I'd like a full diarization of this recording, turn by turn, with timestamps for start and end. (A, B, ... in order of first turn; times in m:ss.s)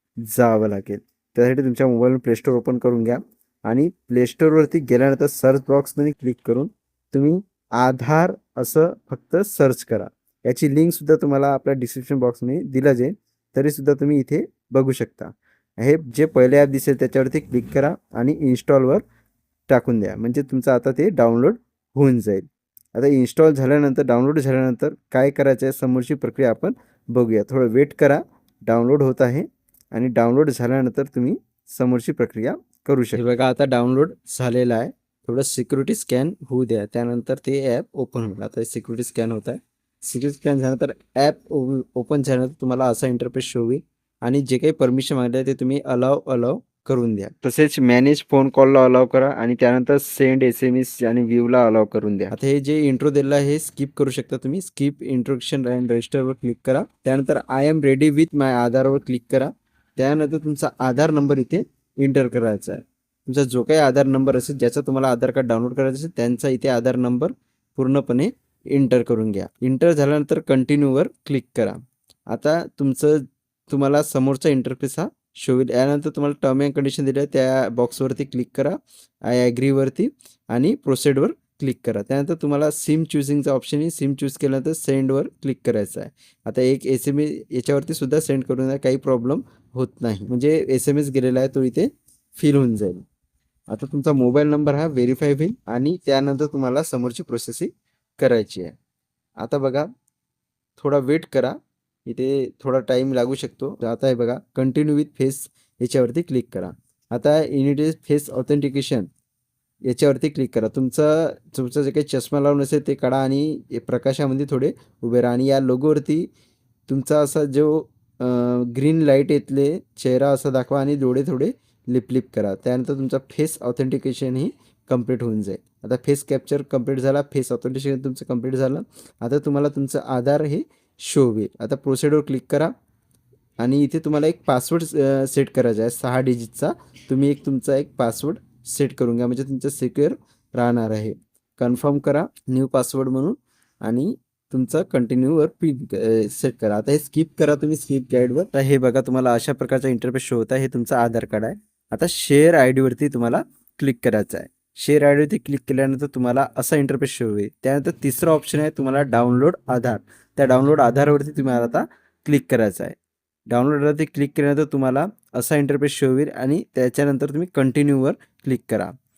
0:00.3-0:19.0 A
0:19.7-1:33.0 A
1:33.7-1:38.8 A
1:39.4-1:39.9 A
1:40.8-1:49.1 A
1:49.9-1:56.3 A
1:56.9-2:12.7 A
2:13.6-2:43.0 A
2:43.5-2:48.9 A